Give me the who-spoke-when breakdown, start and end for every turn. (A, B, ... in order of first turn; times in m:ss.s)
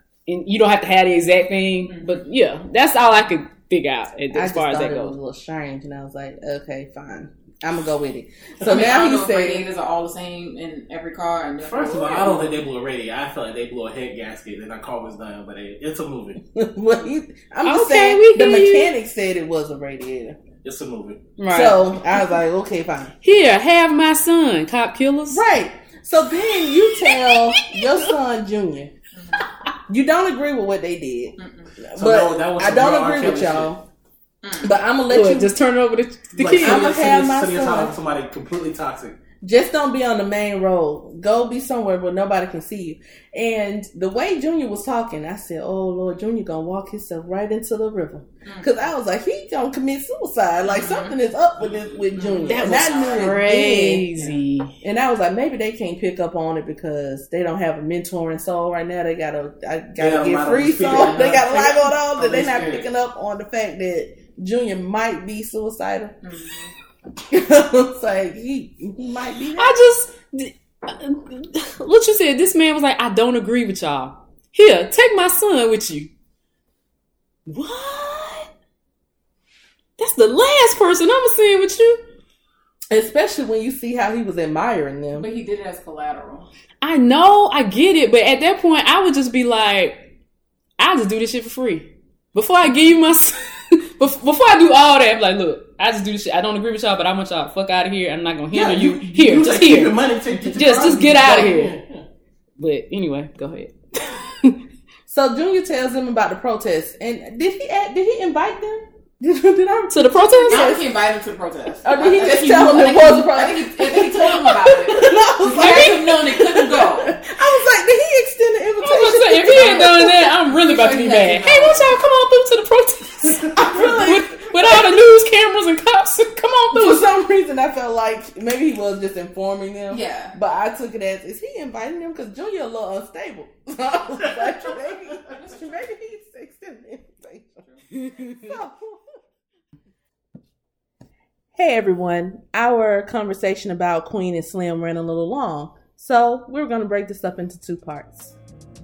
0:00.3-0:05.2 A
0:01.9-0:02.2 B
0:04.3-0:09.6 C
0:08.7-0:12.6 B
0:11.6-0:16.4 D
0:16.5-0:20.4 C
0:17.6-0:18.9 A
0:20.6-0:21.2 D
0:21.4-0:21.8 A
0:21.5-0:23.1 C
0:23.2-0:25.4 A
0:25.3-0:28.9 C
0:27.0-0:28.1 A
0:29.1-0:29.4 B
0:29.9-0:33.8 C
0:31.4-0:31.7 B
0:32.0-0:33.7 D
0:34.4-0:34.8 B
0:34.6-0:35.5 C
0:35.1-0:36.9 A
0:36.4-0:37.9 C
0:36.6-0:39.2 D
0:39.4-0:54.1 C
0:48.4-0:48.7 B
0:50.6-0:51.2 B
0:52.1-0:53.4 B
0:52.4-0:54.7 A
0:54.8-1:06.1 C
1:00.0-1:02.8 D
1:00.9-1:01.2 B
1:02.2-1:02.8 B
1:06.2-1:06.7 B
1:07.3-1:09.8 C
1:09.6-1:16.1 A
1:17.5-1:18.5 A
1:20.0-1:22.0 A
1:22.9-1:25.3 C
1:25.1-1:26.5 B
1:26.8-1:30.0 A
1:30.8-1:39.9 A
1:38.5-1:42.0 D
1:40.5-1:41.8 A
1:42.6-1:44.6 A
1:45.1-1:50.9 C
1:49.9-1:50.7 A
1:50.5-1:57.2 B
1:51.8-2:00.2 C
1:58.8-2:07.0 A
1:59.5-2:02.0 B
2:03.4-2:05.0 C
2:06.7-2:19.0 C
2:09.9-2:10.3 B
2:15.2-2:15.6 B
2:21.5-2:28.4 C